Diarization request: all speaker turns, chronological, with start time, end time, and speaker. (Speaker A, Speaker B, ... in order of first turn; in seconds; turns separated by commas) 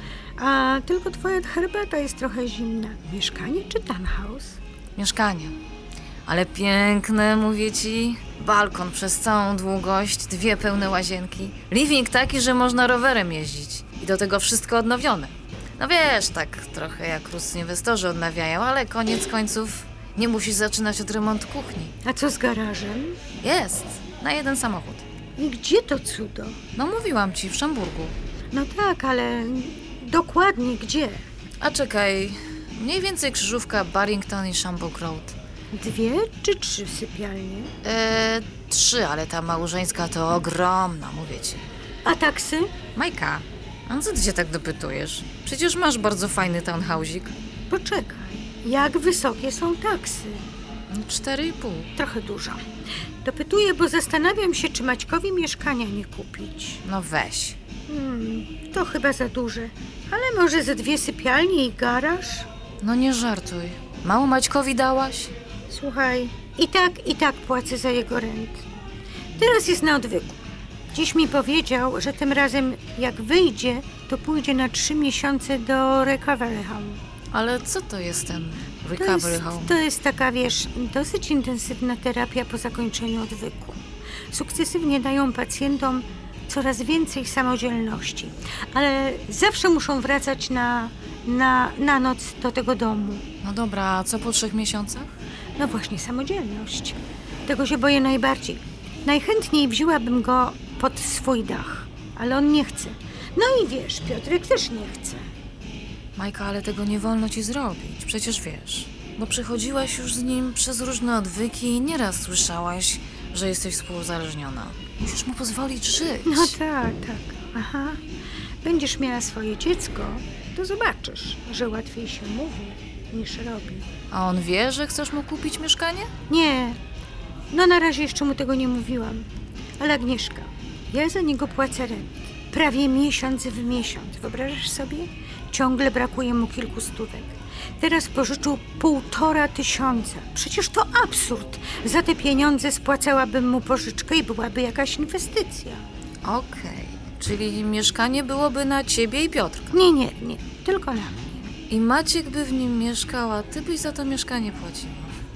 Speaker A: 0.4-4.6, Speaker B: 5.0-5.5, Speaker B: 6.2-21.9, Speaker A: 22.0-23.2, Speaker B: 23.4-25.0, Speaker A: 25.4-26.6, Speaker B: 26.8-28.1, Speaker A: 28.5-31.2, Speaker B: 31.6-35.4, Speaker A: 35.7-37.7, Speaker B: 37.8-41.6, Speaker A: 42.0-42.7, Speaker B: 43.0-47.3, Speaker A: 47.7-50.5, Speaker B: 50.9-51.9, Speaker A: 52.0-52.6, Speaker A: 53.2-56.8, Speaker B: 56.8-57.6, Speaker A: 57.9-62.5, Speaker B: 62.8-65.3, Speaker A: 65.7-68.6, Speaker A: 69.3-70.4, Speaker A: 70.9-77.0, Speaker B: 77.3-79.8, Speaker A: 79.0-93.2, Speaker B: 93.4-95.1, Speaker A: 95.6-105.2, Speaker B: 106.2-116.5, Speaker A: 116.2-118.0, Speaker A: 118.6-123.8, Speaker B: 124.1-126.1, Speaker A: 126.3-126.8, Speaker A: 127.5-129.3, Speaker A: 129.8-145.8, Speaker B: 146.2-149.8, Speaker A: 149.7-151.5, Speaker B: 151.7-155.1